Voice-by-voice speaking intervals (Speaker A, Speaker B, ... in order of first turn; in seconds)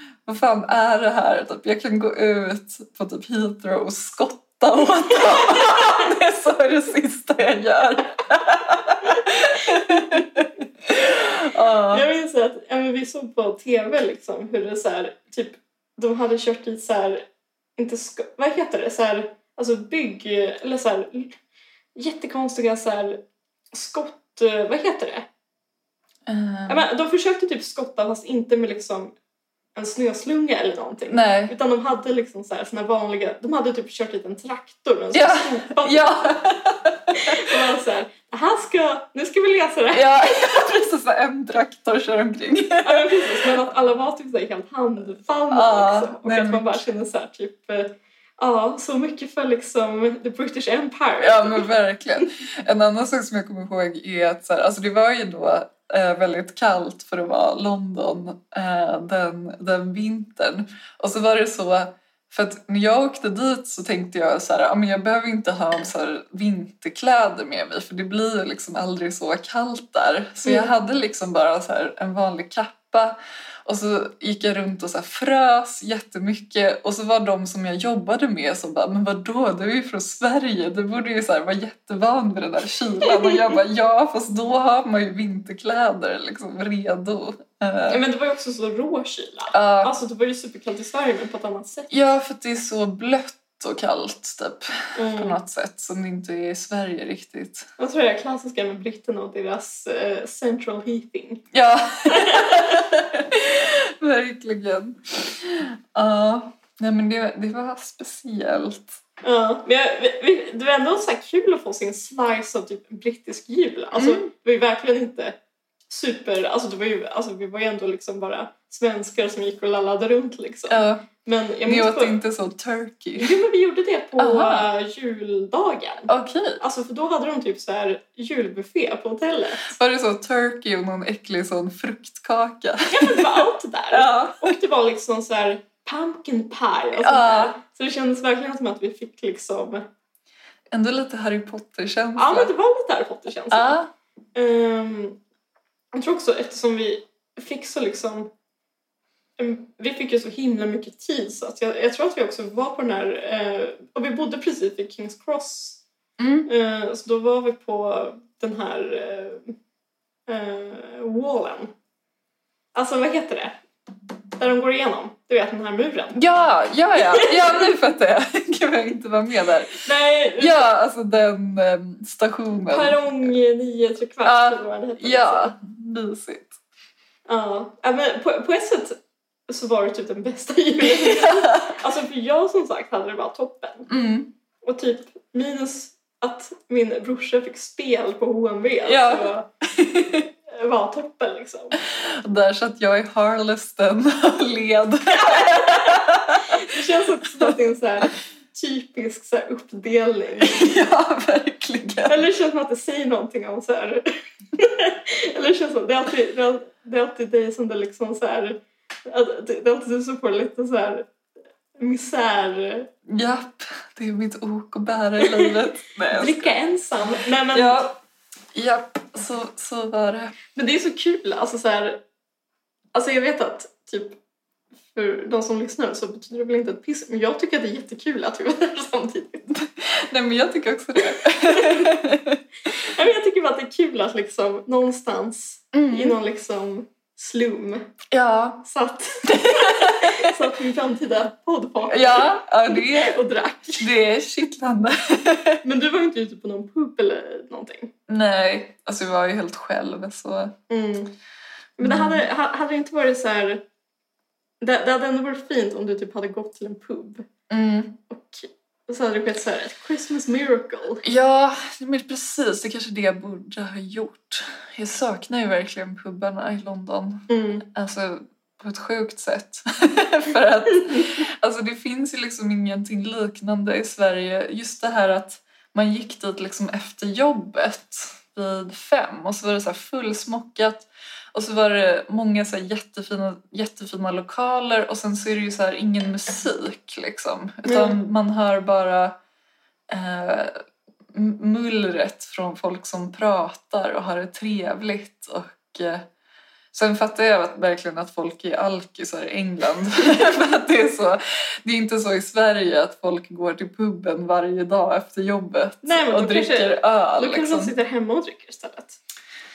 Speaker A: 0.3-12.1, 26.3-26.9, 31.1-31.6, 35.1-37.5, 39.9-43.6, 45.5-46.8, 51.2-88.0, 89.5-89.9, 91.9-97.7, 101.5-109.0, 114.0-114.3, 120.7-121.1, 121.7-123.4, 124.2-124.7, 126.1-126.6, 129.7-134.6, 137.0-137.6, 140.7-142.5, 143.5-143.9, 156.2-156.5, 166.2-173.3, 174.2-176.6, 180.8-181.8, 183.9-184.3, 188.9-190.2, 191.9-196.7, 200.4-202.2, 213.1-216.6, 217.5-217.9, 218.5-220.3, 229.5-232.4, 235.7-236.2, 238.1-238.6, 239.2-240.4, 241.9-243.2, 243.8-245.6, 248.1-250.6, 251.8-252.3, 257.5-258.0, 261.0-289.2, 289.9-290.6, 291.1-296.1, 296.7-307.7
Speaker B: 9.7-10.3, 11.9-21.4, 21.9-25.3, 26.7-29.1, 29.8-36.6, 37.1-40.7, 42.8-51.7, 70.4-70.7, 83.0-83.5, 87.9-91.9, 95.0-95.4, 97.8-101.5, 102.1-103.0, 109.2-115.4, 115.9-122.2, 123.2-129.8, 132.9-139.9, 142.2-143.8, 144.3-145.2, 145.9-148.3, 149.4-155.8, 156.5-159.6, 160.3-161.7, 162.8-163.6, 164.4-166.2, 167.0-167.7, 169.8-170.7, 172.7-175.5, 177.3-183.9, 184.6-189.5, 190.5-191.8, 195.1-200.7, 202.1-211.1, 211.8-212.9, 215.2-215.6, 216.1-217.9, 220.6-222.0, 222.9-224.2, 224.9-229.5, 231.4-231.9, 232.8-237.9, 238.6-243.9, 245.6-247.9, 250.7-251.2, 251.8-253.6, 254.6-257.3, 258.1-261.1, 267.3-267.7, 287.6-288.0, 305.8-309.0